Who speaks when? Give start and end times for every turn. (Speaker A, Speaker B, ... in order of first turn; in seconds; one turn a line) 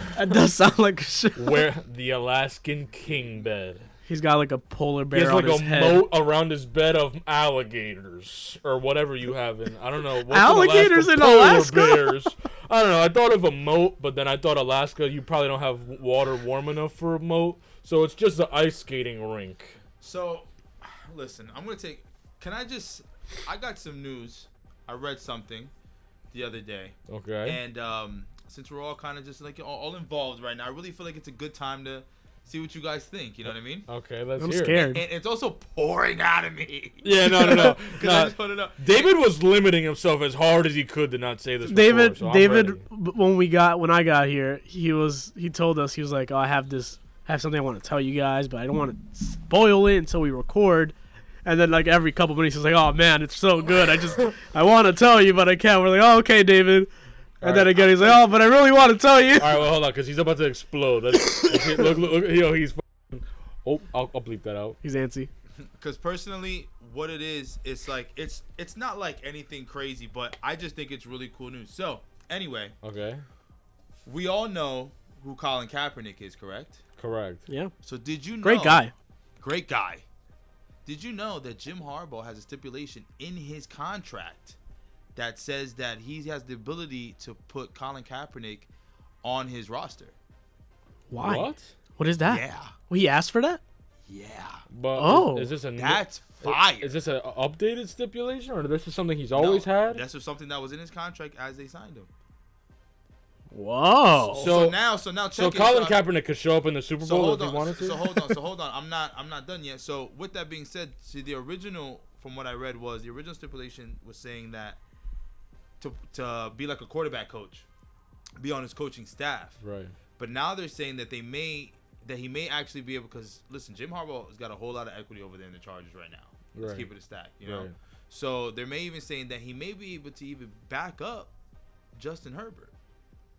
Speaker A: 0.1-1.7
Speaker B: 1.3-3.8
Speaker A: 4.1-6.0
Speaker B: 5.1-19.8
Speaker A: 10.2-12.2
Speaker C: 20.0-25.7
Speaker C: 26.3-33.9
Speaker B: 27.1-27.6
Speaker B: 33.9-34.9
Speaker A: 34.4-35.0
Speaker C: 34.7-39.0
Speaker B: 37.0-42.8
Speaker A: 37.4-37.7
Speaker A: 41.6-56.9
Speaker B: 57.4-57.9
Speaker A: 57.4-59.6
Speaker C: 57.9-58.2
Speaker B: 59.3-64.8
Speaker A: 61.4-61.9
Speaker A: 64.8-65.3
Speaker C: 65.8-72.7
Speaker B: 72.8-73.2
Speaker C: 74.0-76.8
Speaker B: 77.0-77.4
Speaker C: 77.8-78.8
Speaker A: 78.4-78.9
Speaker C: 79.4-80.0
Speaker C: 80.8-84.6
Speaker C: 85.2-88.7
Speaker C: 89.2-90.1
Speaker A: 91.1-93.6
Speaker B: 91.2-91.7
Speaker C: 92.2-92.7
Speaker C: 94.1-94.6
Speaker B: 94.7-100.0
Speaker A: 95.0-95.5
Speaker C: 95.8-96.9
Speaker C: 99.3-102.1
Speaker A: 103.5-104.5
Speaker C: 104.3-106.0
Speaker B: 104.3-104.8
Speaker B: 105.3-108.3
Speaker C: 107.0-114.8
Speaker C: 115.8-117.7
Speaker C: 118.4-119.6
Speaker B: 119.6-119.9
Speaker C: 120.2-131.3
Speaker B: 126.5-126.9
Speaker B: 127.4-127.7
Speaker C: 131.9-132.7